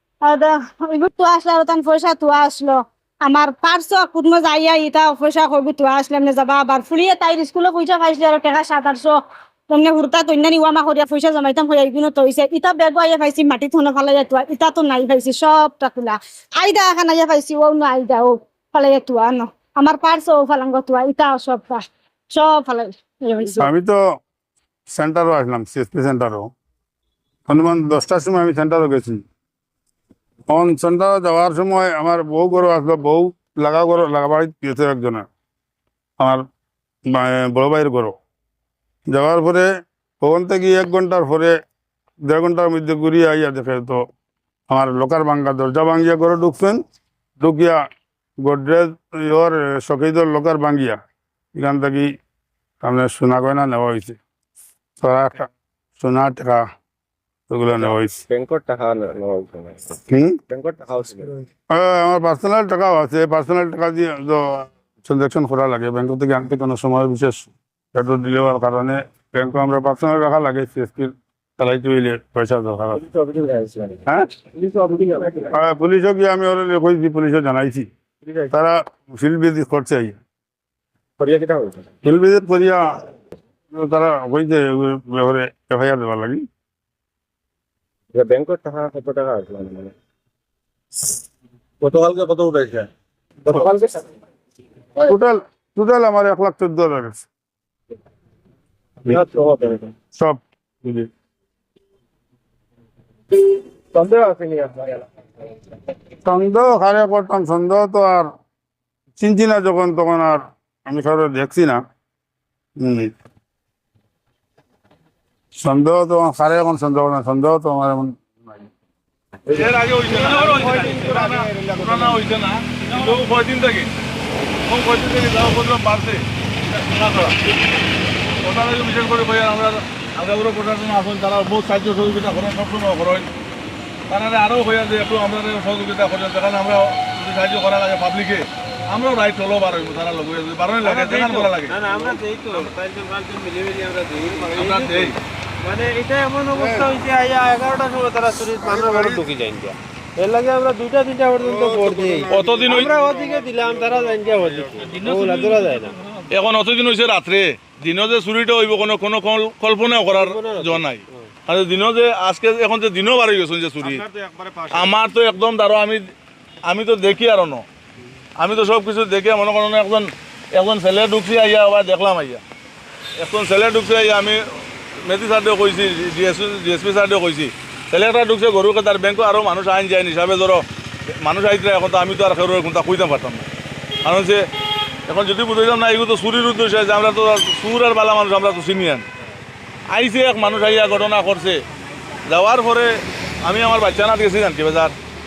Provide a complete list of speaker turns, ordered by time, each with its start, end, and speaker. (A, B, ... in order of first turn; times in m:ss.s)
0:00.2-0:23.7 A
0:23.6-0:24.0 B
0:24.9-0:26.5 B
0:27.5-0:29.2 B
0:30.5-0:35.3 B
0:37.1-0:38.2 B
0:39.1-0:39.7 B
0:40.2-0:41.6 B
0:42.2-0:44.0 B
0:44.7-0:46.8 B
0:47.4-0:47.8 B
0:48.4-0:51.0 B
0:51.6-0:52.1 B
0:52.8-0:54.2 B
0:55.0-0:56.6 B
0:57.5-0:58.2 B
0:57.8-1:00.0 C
1:00.1-1:00.4 B
1:00.5-1:01.4 C
1:01.7-1:13.0 B
1:13.0-1:14.0 C
1:14.5-1:15.5 C
1:15.5-1:17.9 B
1:18.2-1:18.5 C
1:18.5-1:20.2 B
1:21.2-1:21.9 C
1:22.0-1:22.9 B
1:23.7-1:26.5 B
1:28.1-1:29.9 C
1:31.8-1:32.9 C
1:33.4-1:34.0 C
1:35.0-1:37.2 B
1:39.1-1:39.9 C
1:40.1-1:41.1 B
1:44.0-1:44.9 C
1:44.1-1:44.5 D
1:46.2-1:48.3 B
1:49.2-1:51.8 B
1:52.8-1:53.1 B
1:55.6-1:58.7 B
1:59.5-2:03.9 E
2:00.2-2:00.6 D
2:00.6-2:01.1 C
2:04.7-2:07.4 E
2:08.4-2:13.3 E
2:14.1-2:21.8 E
2:20.8-2:36.0 D
2:24.4-2:25.2 E
2:26.6-2:26.9 B
2:28.6-2:29.2 B
2:31.4-2:35.2 B
2:32.3-2:33.0 E
2:35.0-2:35.3 E
2:36.3-2:44.0 E
2:40.1-2:40.8 D
2:44.0-2:44.8 C
2:44.7-2:46.1 E
2:46.7-2:47.6 E
2:48.4-2:52.4 E
2:53.2-2:54.4 E
2:55.0-3:00.6 E
3:01.2-3:03.5 E
3:04.0-3:04.4 E
3:05.1-3:09.1 E
3:09.9-3:11.6 E
3:12.3-3:15.0 E